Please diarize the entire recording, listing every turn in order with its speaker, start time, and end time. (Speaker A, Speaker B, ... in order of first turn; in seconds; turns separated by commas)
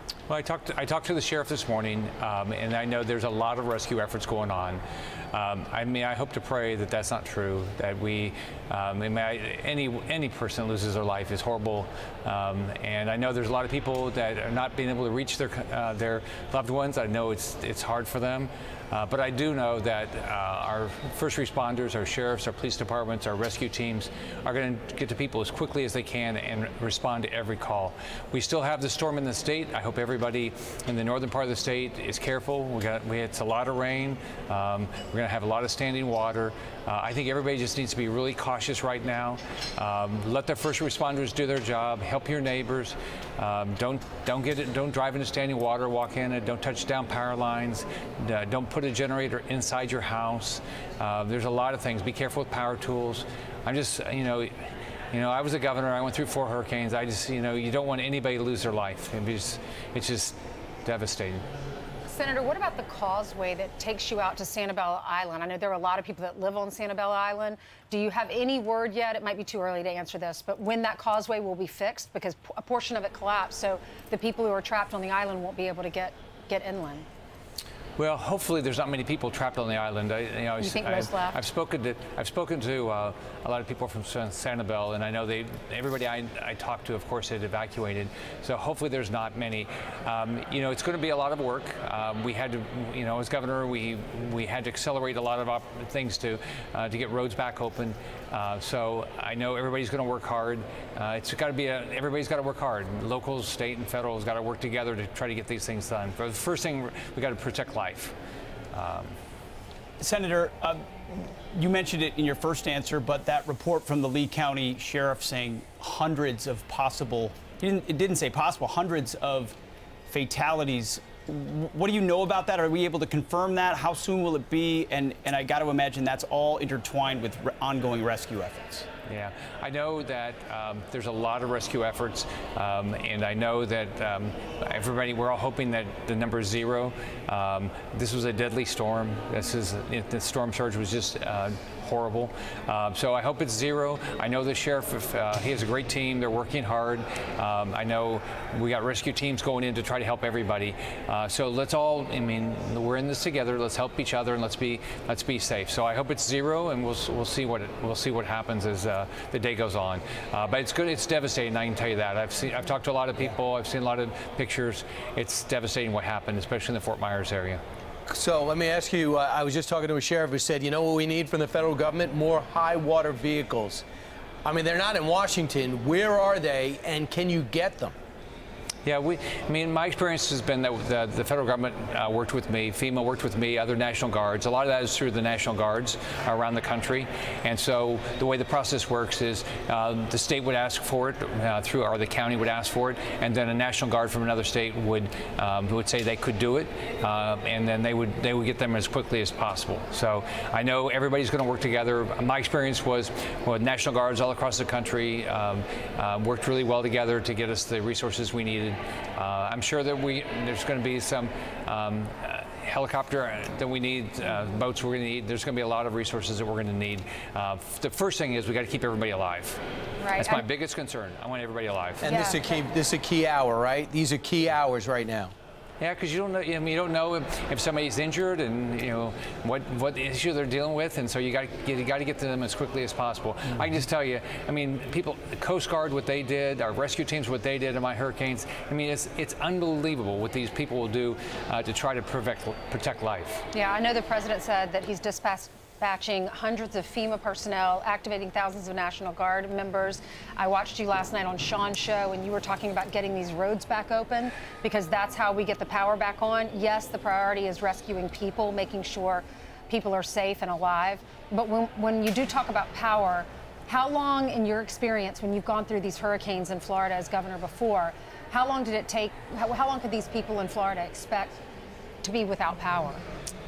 Speaker A: 0.3-4.8, Speaker A: 5.3-61.4, Speaker B: 62.0-77.1, Speaker A: 78.0-108.1, Speaker B: 80.6-81.4, Speaker A: 108.7-109.2, Speaker C: 110.0-119.6, Speaker C: 120.1-128.8, Speaker A: 129.1-167.6, Speaker D: 168.1-173.8, Speaker D: 174.4-177.9, Speaker A: 178.8-219.6, Speaker B: 220.0-220.4, Speaker A: 220.1-222.2, Speaker D: 222.0-225.3, Speaker B: 222.0-222.4, Speaker A: 225.8-243.4, Speaker B: 243.5-271.4, Speaker B: 272.0-273.0